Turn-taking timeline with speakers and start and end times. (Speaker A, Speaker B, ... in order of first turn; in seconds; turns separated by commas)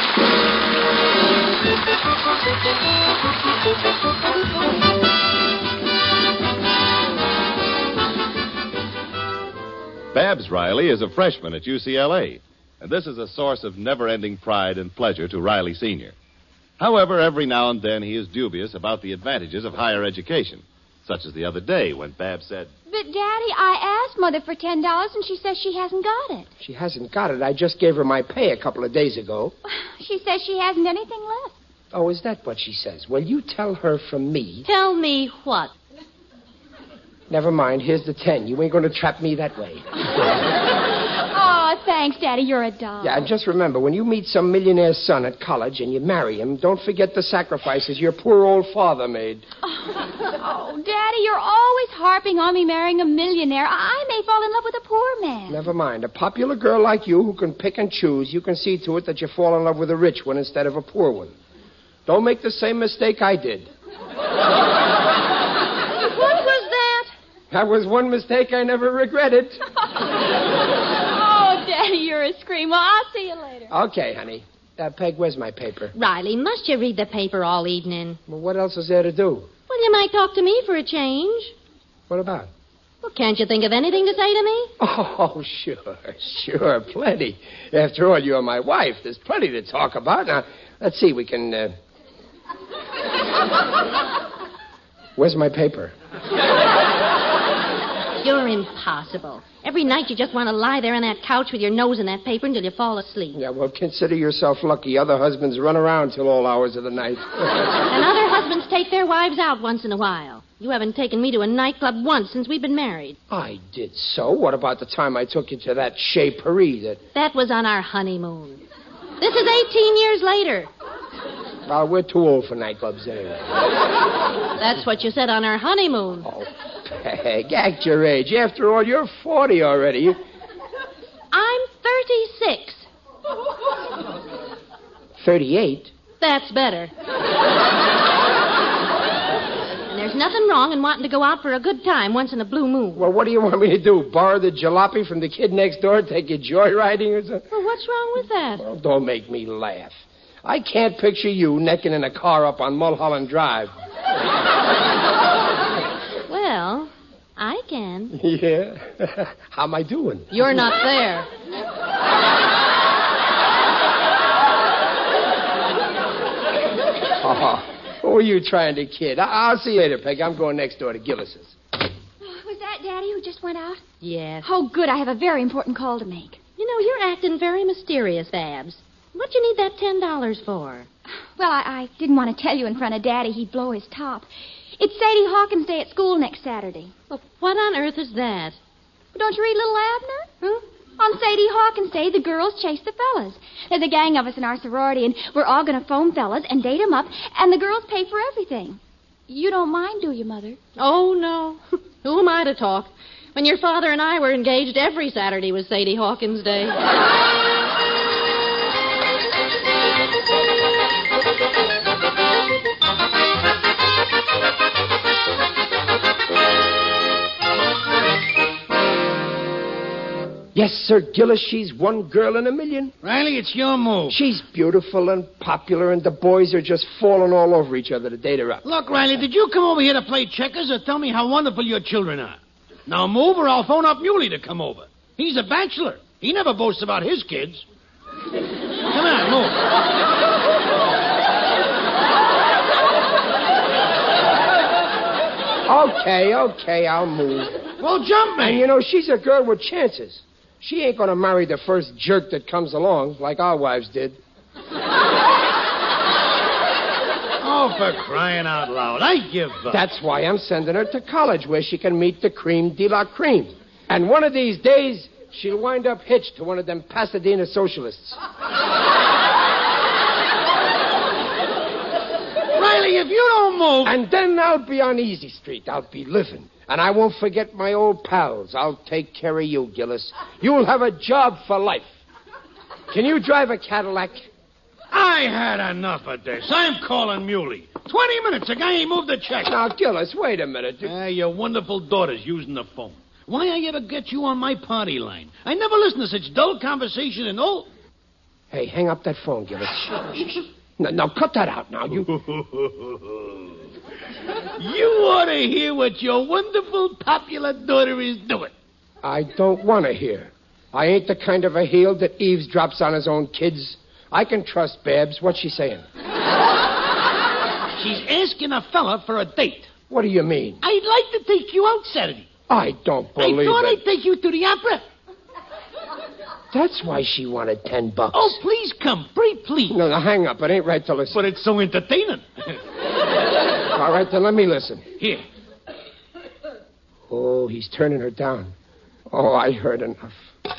Speaker A: 10.1-16.1, Speaker A: 16.8-22.7, Speaker B: 22.9-26.5, Speaker C: 26.6-29.5, Speaker B: 29.7-31.6, Speaker C: 31.9-34.7, Speaker D: 34.6-35.7, Speaker C: 37.3-40.3, Speaker B: 41.3-43.3, Speaker C: 43.0-49.5, Speaker B: 49.7-55.7, Speaker C: 55.5-61.4, Speaker C: 62.1-63.7, Speaker D: 66.1-67.1, Speaker C: 67.5-69.6, Speaker B: 71.1-73.7, Speaker C: 73.7-75.9, Speaker D: 76.0-78.2, Speaker C: 78.3-79.5, Speaker D: 79.7-81.5, Speaker C: 82.1-82.5, Speaker D: 83.0-84.7, Speaker C: 84.8-91.7, Speaker C: 95.2-95.9, Speaker D: 98.2-103.4, Speaker C: 103.3-107.8, Speaker D: 107.9-113.2, Speaker C: 113.3-117.0, Speaker D: 117.2-118.6, Speaker D: 119.2-120.7, Speaker C: 121.7-123.6, Speaker D: 124.6-126.3, Speaker C: 126.2-130.2, Speaker D: 131.3-132.9, Speaker C: 135.2-135.9, Speaker D: 136.2-136.9, Speaker D: 139.9-143.1, Speaker C: 142.9-147.4, Speaker D: 147.5-148.6, Speaker C: 148.6-153.7, Speaker D: 156.3-158.2, Speaker C: 158.1-160.6, Speaker D: 160.3-161.3, Speaker C: 167.2-171.6, Speaker B: 172.2-173.8, Speaker D: 174.0-174.5, Speaker B: 174.4-176.4, Speaker D: 176.6-180.9, Speaker B: 181.4-186.9, Speaker D: 187.1-188.6, Speaker B: 189.1-190.3, Speaker B: 191.0-200.6, Speaker D: 200.8-206.8, Speaker C: 220.6-222.9, Speaker E: 223.0-224.2, Speaker C: 224.1-228.7, Speaker E: 228.6-237.7, Speaker E: 238.9-239.6, Speaker C: 245.7-247.6, Speaker E: 247.8-248.7, Speaker C: 248.4-254.2, Speaker E: 257.4-259.8, Speaker C: 259.7-268.2, Speaker E: 272.5-274.0, Speaker C: 273.8-281.9, Speaker C: 282.9-284.3, Speaker E: 284.9-289.6, Speaker C: 289.4-290.9, Speaker E: 290.8-297.7, Speaker C: 298.5-302.2, Speaker E: 302.2-303.2, Speaker E: 304.6-308.5, Speaker C: 309.0-315.9, Speaker E: 317.8-319.7, Speaker C: 319.9-320.6, Speaker E: 320.6-322.3, Speaker C: 322.5-323.8, Speaker E: 323.2-324.9, Speaker C: 326.5-328.4, Speaker E: 328.1-329.8, Speaker C: 329.7-331.2, Speaker E: 331.1-332.6, Speaker C: 333.7-334.9, Speaker C: 337.1-338.5, Speaker C: 339.1-340.2